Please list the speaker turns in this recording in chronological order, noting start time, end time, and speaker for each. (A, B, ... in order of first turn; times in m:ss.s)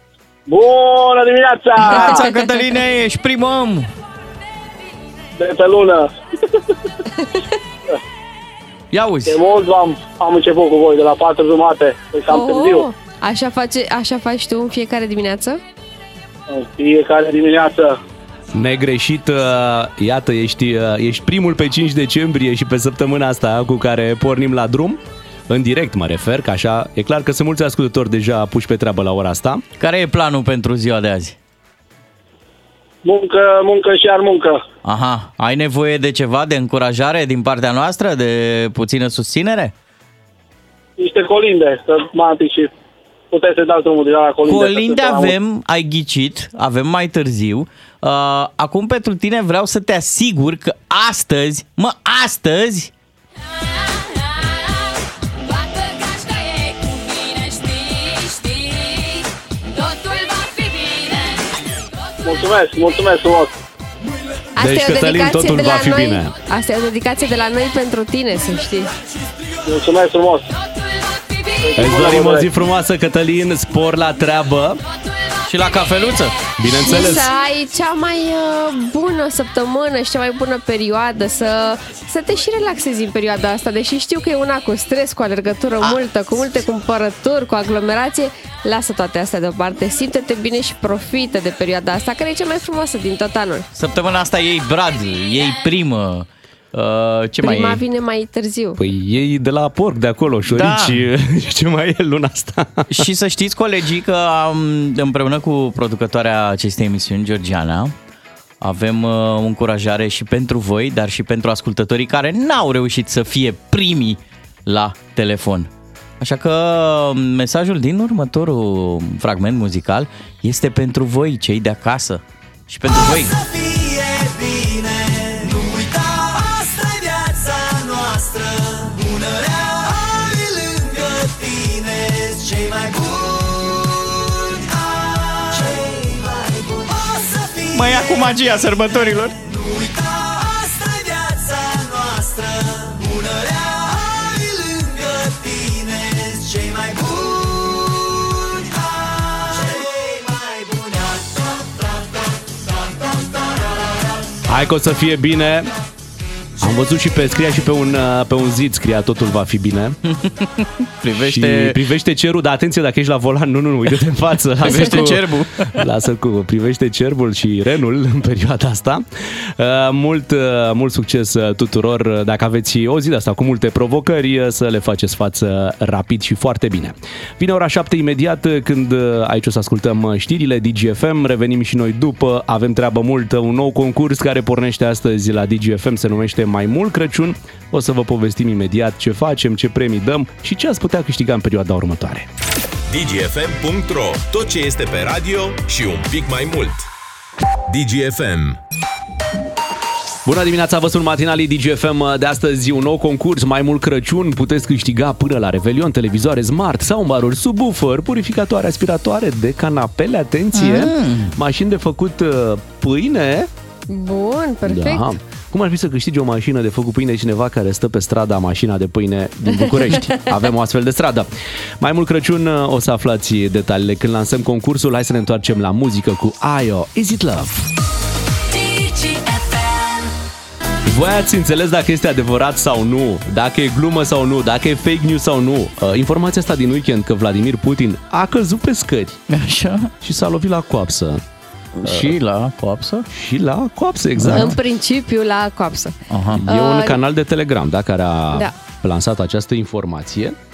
0:00.5-0:02.2 A
0:01.8-0:03.9 B
0:01.9-0:02.4 C
0:05.4-0:06.6 A
0:08.9-0:09.4 B
0:09.3-0:12.9 A
0:12.3-0:15.6 C
0:16.5-0:18.0 A
0:18.5-0:29.6 D
0:29.8-0:31.4 B
0:33.0-0:34.6 A
0:34.8-0:39.7 B
0:41.0-0:42.7 A
0:43.3-0:45.4 A
0:44.4-0:52.9 B
1:02.2-1:03.6 A
1:04.6-1:06.4 D
1:04.6-1:08.9 C
1:09.6-1:10.5 A
1:11.6-1:12.5 A
1:11.8-1:14.8 D
1:15.5-1:16.4 B
1:16.6-1:17.3 D
1:16.7-1:33.7 C
1:33.8-1:37.8 B
1:37.4-1:38.8 C
1:38.8-1:43.1 D
1:40.5-1:41.1 B
1:42.9-1:47.9 B
1:48.6-1:55.7 B
1:56.2-2:03.4 B
2:03.1-2:17.8 E
2:17.7-2:19.4 B
2:19.5-2:33.9 E
2:34.4-2:35.7 D
2:36.6-2:40.0 D
2:40.1-2:41.8 B
2:41.2-3:12.3 D
2:44.6-2:45.8 B
3:12.9-3:16.9 F
3:17.7-3:18.6 F
3:20.2-3:33.5 D
3:30.7-3:31.3 B
3:33.9-3:35.1 C
3:34.7-3:47.6 D
3:39.6-3:40.2 C
3:48.5-3:50.1 E
3:50.8-3:59.2 D
3:59.3-3:59.9 B
4:00.0-4:01.2 D
4:01.8-4:03.1 B
4:01.8-4:02.2 D
4:03.1-4:04.5 D
4:04.2-4:04.6 B
4:04.3-4:06.0 C
4:06.1-4:06.4 B
4:06.3-4:10.4 D
4:06.5-4:07.0 C